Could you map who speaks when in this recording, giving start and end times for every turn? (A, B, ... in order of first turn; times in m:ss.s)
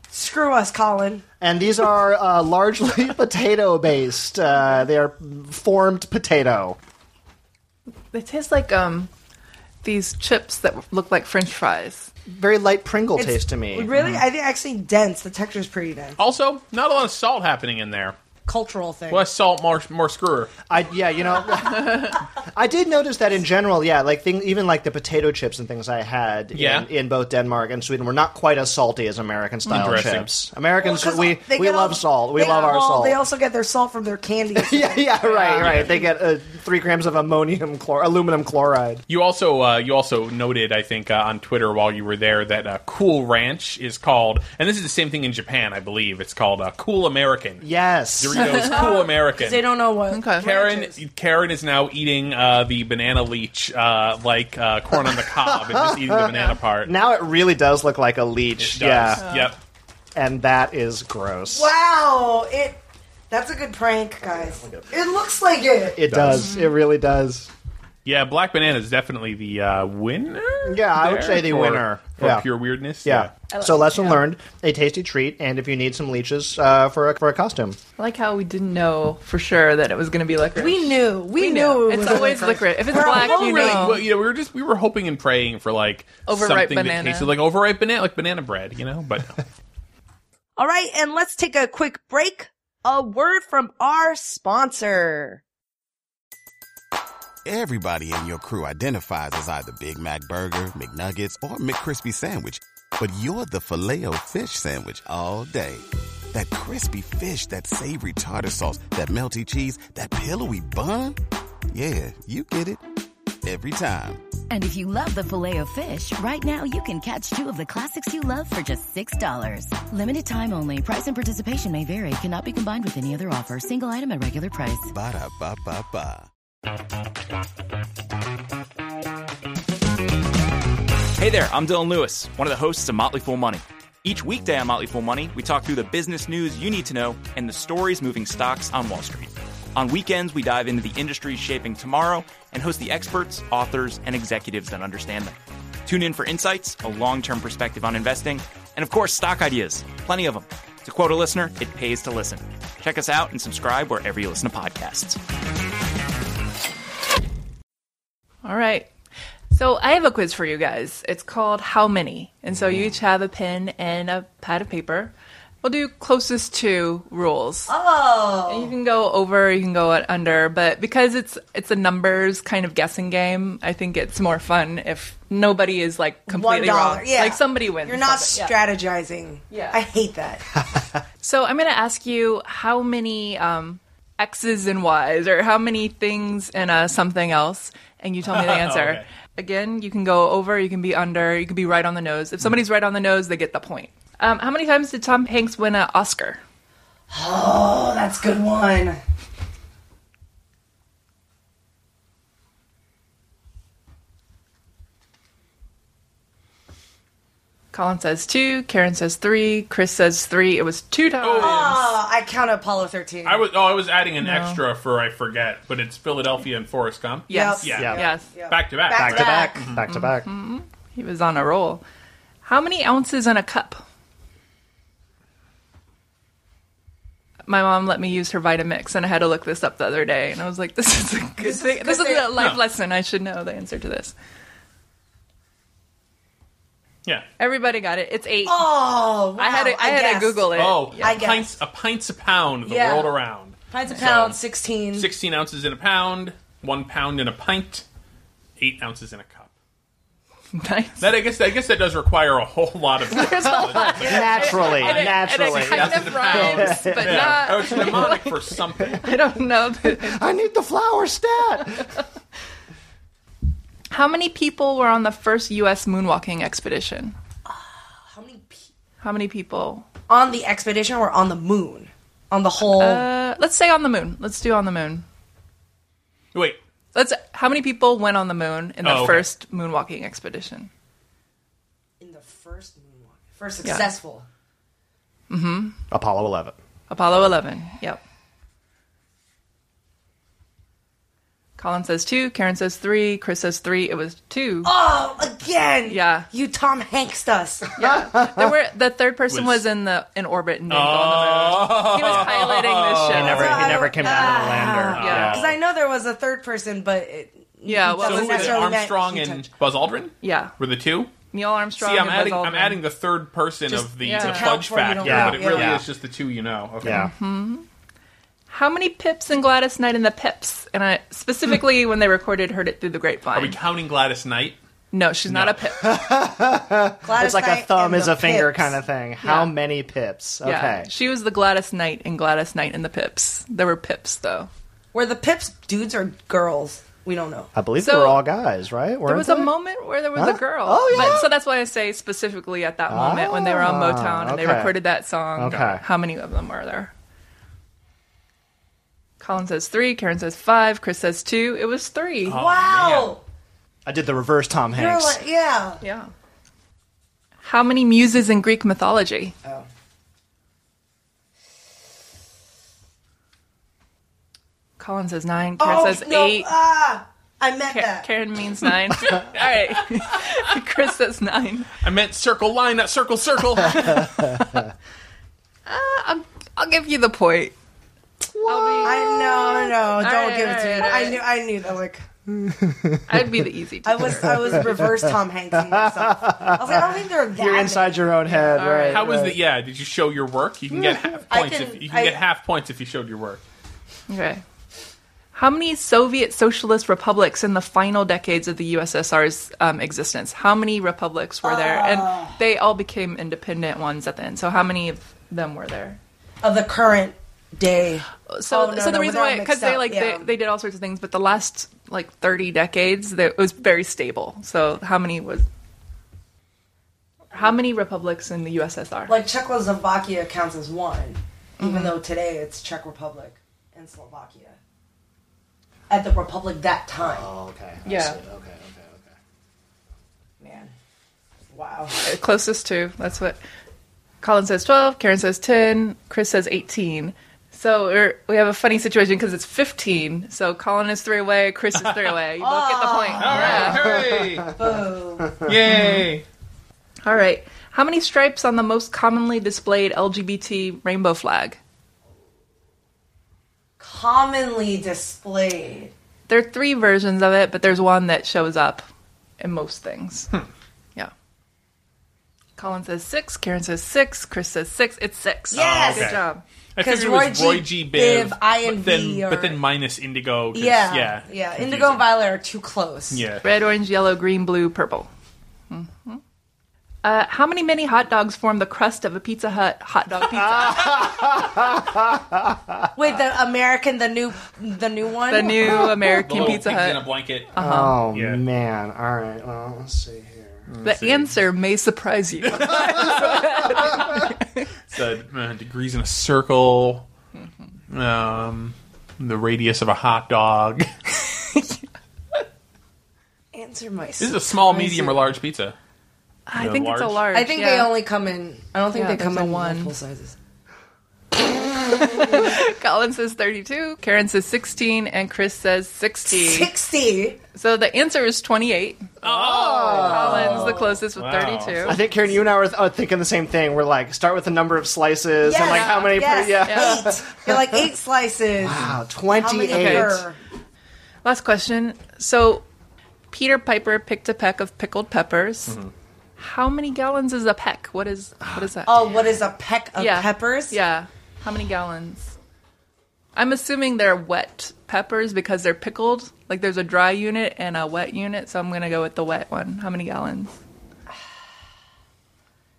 0:00.1-0:01.2 A
0:01.4-0:06.8 B
0:08.1-0:09.1 C
0:09.8-0:12.1 C
0:12.3-0:13.9 B
0:13.2-0:16.2 A
0:14.0-0:14.2 D
0:16.2-0:18.2 D
0:18.5-0:19.3 A
0:19.1-0:20.5 D
0:20.7-0:33.2 B
0:26.5-0:26.9 D
0:29.7-0:30.1 C
0:29.7-0:30.3 D
0:30.8-0:35.8 A
0:34.6-0:39.0 B
0:35.6-0:35.9 D
0:39.1-0:47.6 D
0:47.6-0:48.6 B
0:48.2-0:49.7 D
0:48.6-0:51.0 A
0:50.1-0:50.5 C
0:50.4-0:56.9 D
0:55.1-0:59.2 B
0:58.6-0:59.6 D
0:59.2-0:59.5 C
1:00.2-1:01.7 B
1:01.5-1:06.0 A
1:04.2-1:04.9 B
1:06.0-1:07.5 B
1:06.1-1:06.5 D
1:06.3-1:06.7 C
1:08.0-1:13.3 D
1:10.6-1:12.5 B
1:13.0-1:17.8 B
1:13.5-1:14.2 C
1:18.0-1:24.0 C
1:20.6-1:24.0 A
1:23.0-1:29.4 D
1:26.3-1:27.3 C
1:30.6-1:35.4 A
1:37.4-1:51.2 E
1:51.7-1:52.8 E
1:53.4-1:54.2 E
1:54.5-2:04.9 F
2:04.9-2:06.3 E
2:11.2-2:35.2 G
2:38.4-2:38.9 C
2:39.5-2:47.7 C
2:47.7-2:48.7 A
2:48.5-2:58.6 C
2:56.3-3:00.5 A
2:59.5-2:59.8 C
3:01.2-3:16.4 C
3:08.2-3:09.0 D
3:17.1-3:19.0 A
3:27.7-3:31.8 C
3:31.2-3:31.9 D
3:31.4-3:33.4 A
3:33.2-3:38.0 D
3:34.2-3:34.6 C
3:37.3-3:38.3 C
3:37.3-3:39.6 A
3:37.8-3:38.0 B
3:38.5-3:39.8 D
3:38.9-3:40.3 B
3:39.9-3:41.8 C
3:42.4-3:43.8 C
3:47.5-3:54.1 C
3:51.4-3:52.3 A
3:52.4-3:52.6 D
3:57.4-3:58.8 C
3:58.4-4:01.6 A
3:59.4-4:01.2 C
4:00.6-4:04.4 D
4:02.6-4:03.2 A
4:03.7-4:05.1 A
4:05.0-4:07.8 D
4:08.6-4:09.5 D
4:10.5-4:11.1 C
4:11.0-4:19.1 D
4:13.1-4:20.2 C
4:13.5-4:18.1 B
4:19.9-4:22.0 B
4:23.9-4:27.2 C
4:27.5-4:28.7 A
4:29.0-4:29.9 C
4:30.1-4:33.1 A
4:32.6-4:35.0 C
4:36.3-4:36.6 D
4:36.9-4:40.7 C
4:38.8-4:39.3 D
4:42.0-4:44.2 A
4:45.3-4:45.8 C
4:45.9-4:46.6 B
4:46.9-4:48.0 C
4:51.6-4:54.7 C
4:54.6-4:57.7 A
4:55.9-4:56.3 C
4:57.8-5:04.4 C
4:57.8-4:58.5 B
4:59.3-4:59.6 D
5:00.7-5:03.7 D
5:03.1-5:05.4 B
5:03.3-5:09.5 A
5:04.9-5:05.6 D
5:05.0-5:05.4 C
5:07.6-5:08.7 C
5:08.0-5:11.2 D
5:10.2-5:10.5 C
5:11.3-5:12.8 C
5:11.8-5:17.1 D
5:13.7-5:15.8 A
5:14.0-5:14.5 C
5:15.0-5:15.9 B
5:16.8-5:17.1 B
5:16.9-5:17.7 C
5:18.5-5:23.6 C
5:23.3-5:24.6 D
5:24.9-5:25.9 C
5:25.3-5:25.6 D
5:25.8-5:30.9 B
5:27.0-5:28.8 A
5:29.2-5:29.5 C
5:30.4-5:34.5 C
5:34.9-5:37.5 A
5:37.6-5:39.5 B
5:37.8-5:38.2 C
5:39.1-5:46.9 C
5:40.2-5:41.4 B
5:42.9-5:44.8 B
5:45.4-5:45.8 B
5:49.2-5:52.4 C
5:52.3-5:53.2 D
5:52.3-5:53.2 A
5:53.9-5:55.2 B
5:54.8-5:55.8 A
5:55.8-5:56.1 C
5:57.4-5:59.4 C
6:04.8-6:06.5 C
6:05.6-6:08.1 A
6:07.7-6:11.7 C
6:11.8-6:14.2 D
6:14.1-6:14.5 B
6:15.7-6:17.5 C
6:18.3-6:19.7 B
6:18.5-6:19.2 C
6:18.8-6:22.1 A
6:20.0-6:21.2 C
6:22.3-6:23.5 B
6:23.1-6:24.7 C
6:23.8-6:28.1 A
6:24.4-6:25.0 B
6:25.5-6:29.4 B
6:28.3-6:29.1 C
6:28.9-6:33.4 D
6:30.7-6:31.1 B
6:31.3-6:32.2 A
6:34.1-6:34.4 C
6:35.3-6:46.0 C
6:41.4-6:42.4 A
6:46.4-6:50.3 A
6:48.3-6:55.5 C
6:57.3-6:59.2 C
6:59.1-7:04.6 A
7:01.6-7:02.0 C
7:05.9-7:07.3 A
7:07.0-7:09.1 B
7:07.9-7:08.2 C
7:10.4-7:10.7 A
7:11.5-7:12.0 A
7:12.0-7:13.4 C
7:14.2-7:23.9 C
7:22.4-7:23.7 A
7:23.2-7:24.5 D
7:23.7-7:24.5 B
7:24.5-7:25.3 A
7:25.4-7:26.2 D
7:25.7-7:26.1 C
7:27.0-7:31.6 C
7:33.8-7:35.9 A
7:36.3-7:38.9 C
7:39.4-7:40.3 C
7:42.6-7:46.4 C
7:45.5-7:46.2 A
7:45.6-7:46.2 D
7:46.8-7:52.0 D
7:46.8-7:49.6 A
7:50.5-7:53.2 A
7:53.1-7:53.5 D
7:53.4-7:55.1 C
7:55.7-7:56.2 C
7:57.0-8:01.3 C
8:00.3-8:02.9 B
8:03.0-8:05.9 A
8:05.3-8:08.0 C
8:05.6-8:06.4 B
8:05.8-8:07.5 D
8:07.6-8:10.7 B
8:08.1-8:08.4 D
8:10.7-8:11.4 D
8:10.8-8:14.7 C
8:12.4-8:14.2 D
8:14.9-8:17.1 D
8:17.9-8:20.9 D
8:21.3-8:21.8 C
8:23.5-8:25.1 A
8:24.2-8:25.8 D
8:26.5-8:27.9 C
8:26.6-8:27.2 D
8:27.3-8:30.4 A
8:28.9-8:29.9 C
8:31.9-8:36.7 C
8:36.3-8:37.4 A
8:37.6-8:39.1 C
8:39.2-8:40.5 D
8:39.2-8:40.8 B
8:40.0-8:42.0 C
8:40.4-8:41.0 A
8:41.1-8:42.0 D
8:41.8-8:47.8 B
8:45.4-8:50.4 A
8:45.8-8:46.0 C
8:46.6-8:47.1 C
8:48.6-8:50.2 B
8:49.7-8:50.2 C
8:51.2-8:52.6 C
8:53.3-8:55.8 C
8:55.7-8:55.9 D
8:56.4-8:59.1 C
8:58.8-9:00.8 A
9:00.0-9:02.4 C
9:03.4-9:10.6 C